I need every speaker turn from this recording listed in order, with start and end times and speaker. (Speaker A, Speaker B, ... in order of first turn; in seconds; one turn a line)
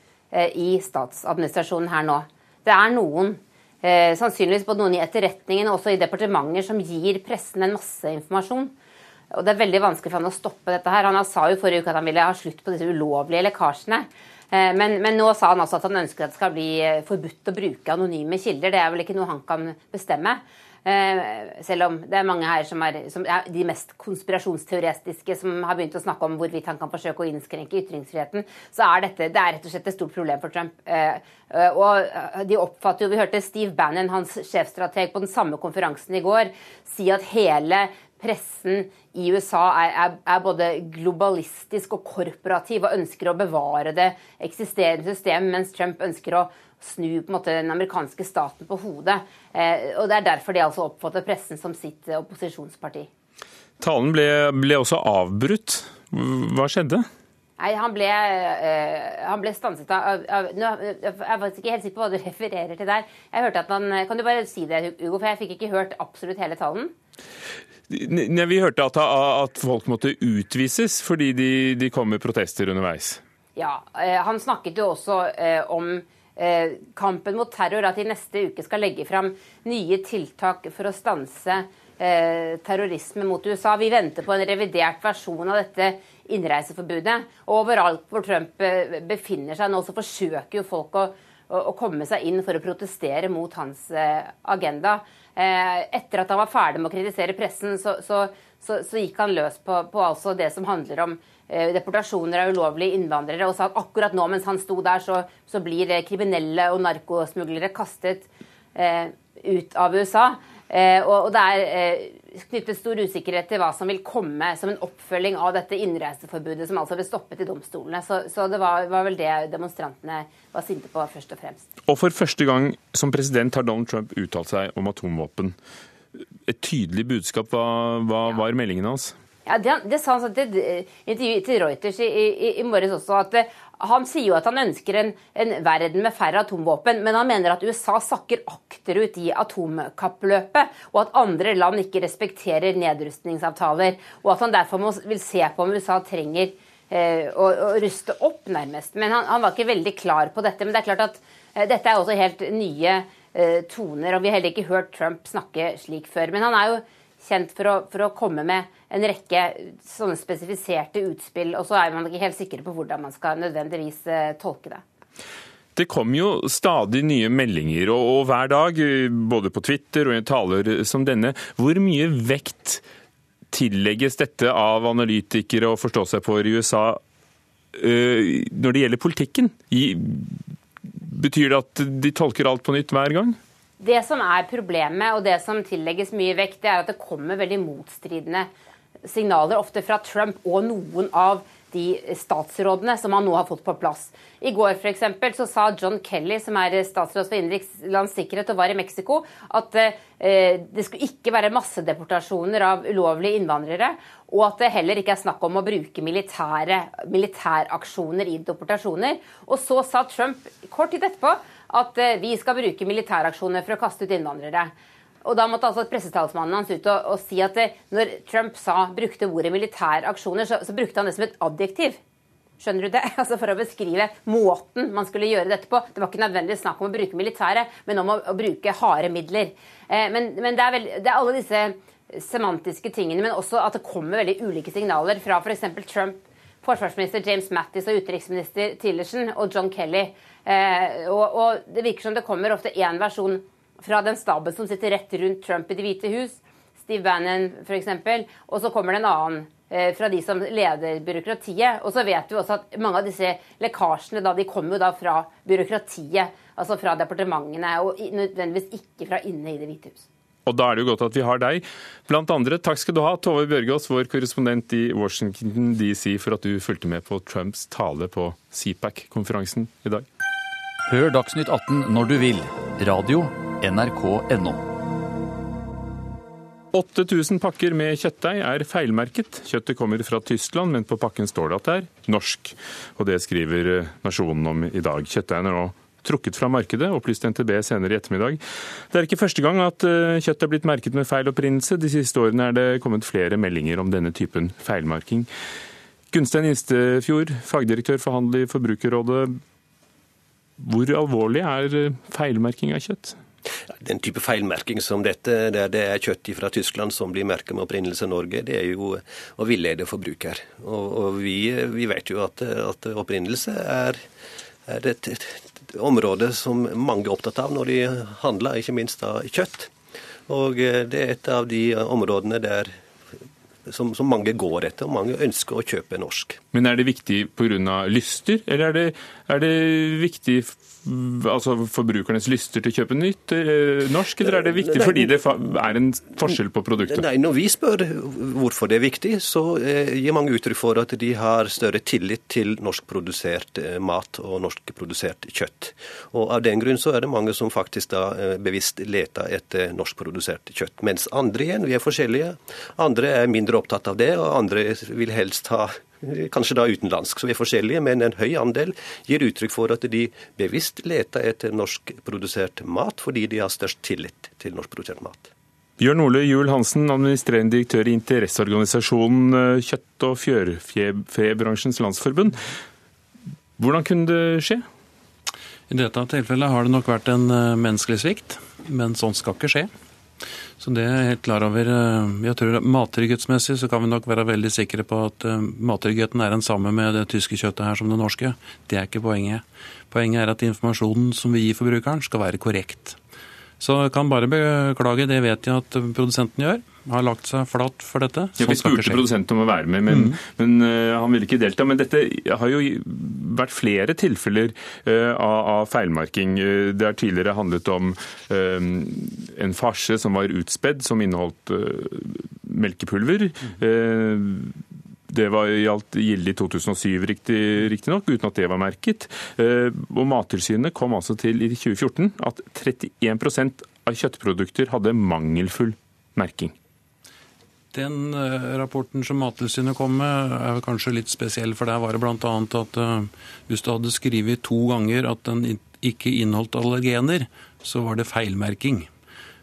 Speaker A: 0.3-8.7
Speaker A: 9.3-53.1
Speaker B: 53.8-57.1
Speaker A: 57.6-66.9
Speaker B: 67.9-73.2
Speaker A: 73.5-121.6
Speaker B: 121.9-125.5
Speaker B: 126.5-129.1
Speaker A: 129.4-164.8
Speaker B: 165.8-172.8
Speaker B: 173.5-177.0
Speaker B: 177.7-180.4
Speaker B: 181.0-183.4
Speaker A: 183.8-188.5
Speaker A: 189.0-214.7
Speaker A: 215.2-222.0
Speaker A: 222.6-260.0
Speaker B: 260.4-270.1
Speaker C: 270.9-274.6
Speaker B: 276.7-295.3
Speaker B: 296.1-299.4
Speaker B: 300.6-303.2
Speaker D: 303.7-314.0
Speaker D: 314.7-319.7
Speaker D: 320.3-322.7
Speaker D: 323.7-326.4
Speaker B: 326.5-337.0
Speaker D: 334.5-335.1
Speaker D: 336.9-365.3
Speaker B: 365.8-372.4
Speaker B: 373.6-374.6
Speaker E: 375.7-379.7
Speaker E: 380.6-393.0
Speaker E: 393.6-399.1
Speaker B: 398.4-426.5
Speaker E: 399.9-400.2
Speaker E: 427.7-438.9